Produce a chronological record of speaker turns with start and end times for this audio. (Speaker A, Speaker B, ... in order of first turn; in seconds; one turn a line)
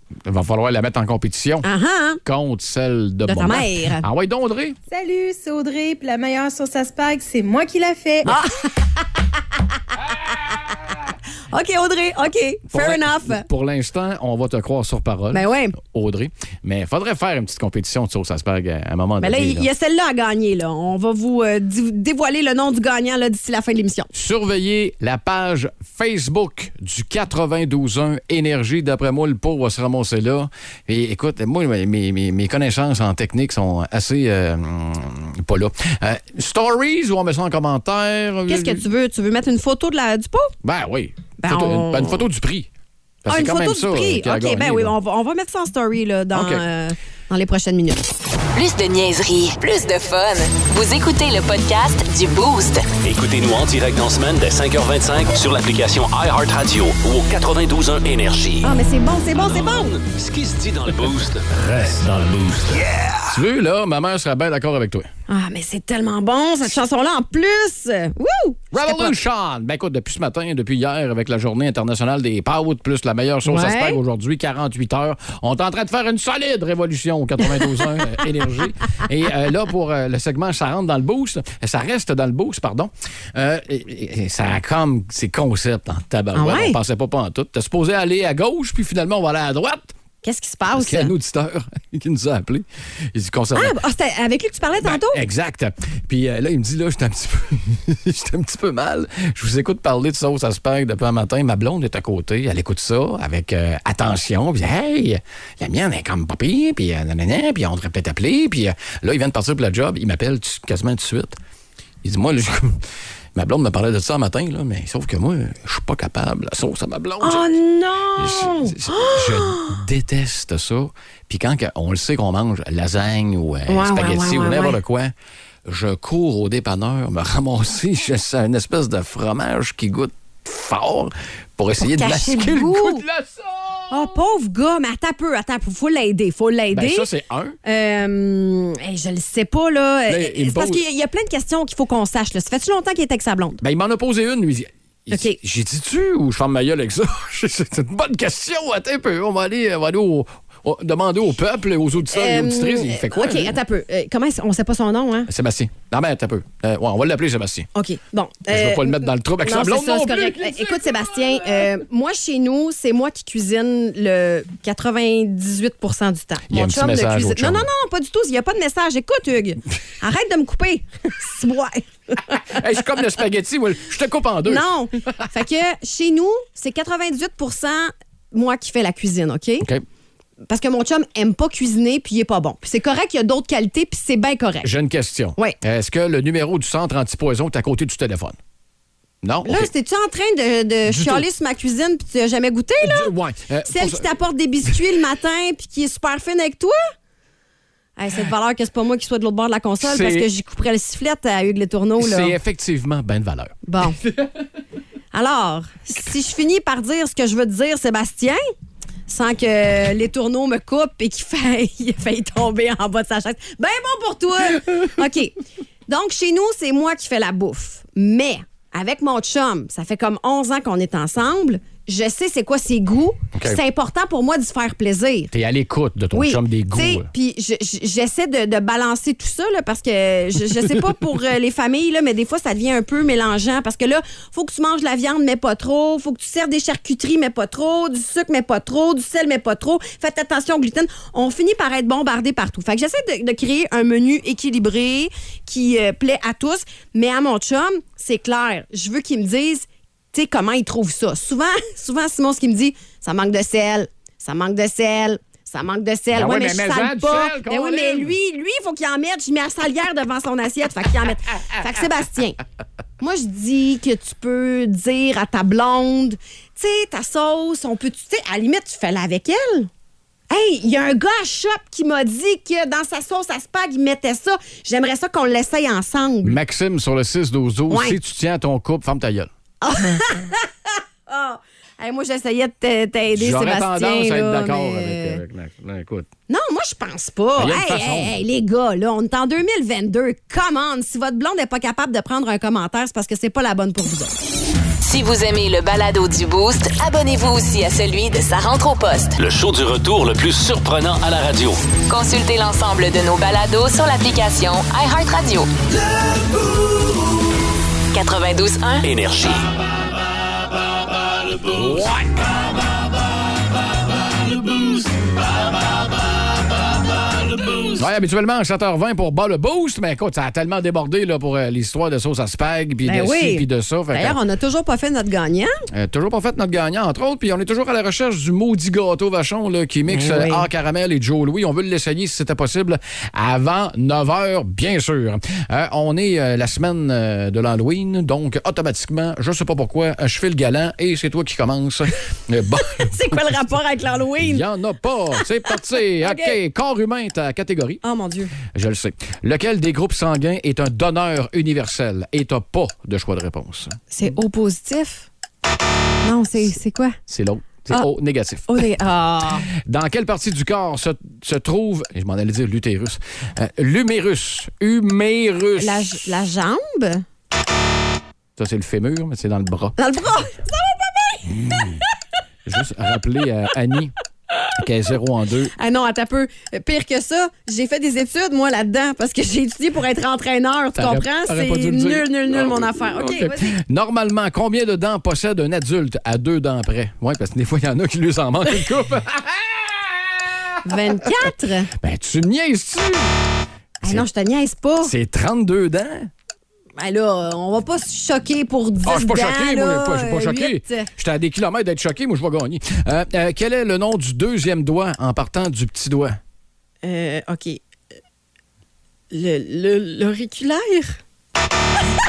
Speaker A: 0.2-1.7
Speaker B: 1.6-2.2
Speaker A: 2.2-4.8
Speaker B: 3.2-4.0
Speaker C: 4.9-8.2
Speaker B: 8.2-8.9
Speaker B: 11.5-13.4
Speaker A: 12.7-19.7
Speaker B: 15.3-15.8
Speaker B: 19.2-24.1
Speaker A: 24.1-38.8
Speaker B: 38.5-40.5
Speaker A: 40.6-42.7
Speaker B: 41.4-42.3
Speaker A: 43.2-44.9
Speaker B: 43.3-48.0
Speaker A: 46.3-46.6
Speaker D: 48.5-52.9
Speaker E: 53.0-58.7
Speaker B: 58.6-59.9
Speaker E: 59.3-61.5
Speaker A: 61.5-65.1
Speaker E: 62.8-63.1
Speaker B: 65.3-69.2
Speaker A: 68.7-89.9
Speaker B: 73.4-74.0
Speaker B: 86.3-86.8
Speaker B: 90.2-91.1
Speaker A: 90.7-93.7
Speaker B: 93.5-95.2
Speaker A: 94.8-111.4
Speaker A: 112.0-112.8
Speaker A: 113.3-117.5
Speaker B: 117.2-119.8
Speaker A: 118.2-125.1
Speaker B: 123.7-124.8
Speaker A: 125.7-134.2
Speaker B: 131.8-133.1
Speaker B: 133.9-137.1
Speaker A: 136.7-137.6
Speaker B: 137.7-143.6
Speaker A: 140.1-140.8
Speaker A: 143.6-153.6
Speaker B: 145.1-145.4
Speaker B: 152.1-155.3
Speaker A: 155.3-157.7
Speaker B: 157.7-172.4
Speaker A: 158.5-161.7
Speaker A: 166.5-167.7
Speaker A: 172.3-175.1
Speaker B: 174.4-179.7
Speaker B: 180.5-184.7
Speaker A: 184.6-188.3
Speaker A: 189.2-189.7
Speaker B: 189.4-193.1
Speaker A: 190.8-191.2
Speaker A: 192.8-194.1
Speaker B: 193.7-196.8
Speaker B: 198.0-202.3
Speaker A: 199.8-200.3
Speaker A: 202.0-203.6
Speaker B: 203.7-204.0
Speaker B: 205.1-208.4
Speaker B: 209.1-215.3
Speaker B: 215.9-225.3
Speaker A: 225.3-227.1
Speaker B: 226.1-262.4
Speaker A: 256.1-258.2
Speaker B: 263.0-269.7
Speaker B: 270.3-276.4
Speaker A: 276.2-279.3
Speaker B: 277.7-278.0
Speaker B: 279.6-285.2
Speaker A: 283.1-286.1
Speaker B: 286.3-294.1
Speaker A: 287.4-288.1
Speaker D: 294.8-299.2
Speaker E: 299.2-301.7
Speaker D: 301.8-305.5
Speaker D: 307.9-308.9
Speaker E: 308.9-309.4
Speaker A: 311.5-312.3
Speaker A: 317.7-324.2
Speaker B: 322.8-325.5
Speaker A: 325.7-343.0
Speaker B: 329.9-330.5
Speaker B: 342.8-344.4
Speaker A: 344.2-347.8
Speaker B: 346.0-346.4
Speaker B: 347.8-348.3
Speaker A: 348.6-353.8
Speaker B: 353.9-355.1
Speaker B: 356.0-357.0
Speaker A: 357.1-358.6
Speaker B: 358.5-359.5
Speaker A: 359.7-366.1
Speaker B: 365.6-367.1
Speaker A: 368.4-369.7
Speaker B: 369.8-371.7
Speaker A: 371.4-371.7
Speaker A: 372.4-373.9
Speaker A: 374.5-375.5
Speaker B: 375.6-383.6
Speaker A: 380.7-390.6
Speaker B: 390.6-391.7
Speaker A: 391.8-393.1
Speaker B: 393.8-394.9
Speaker A: 394.8-396.1
Speaker B: 396.8-400.9
Speaker A: 398.8-406.2
Speaker B: 406.8-407.6
Speaker B: 409.1-411.0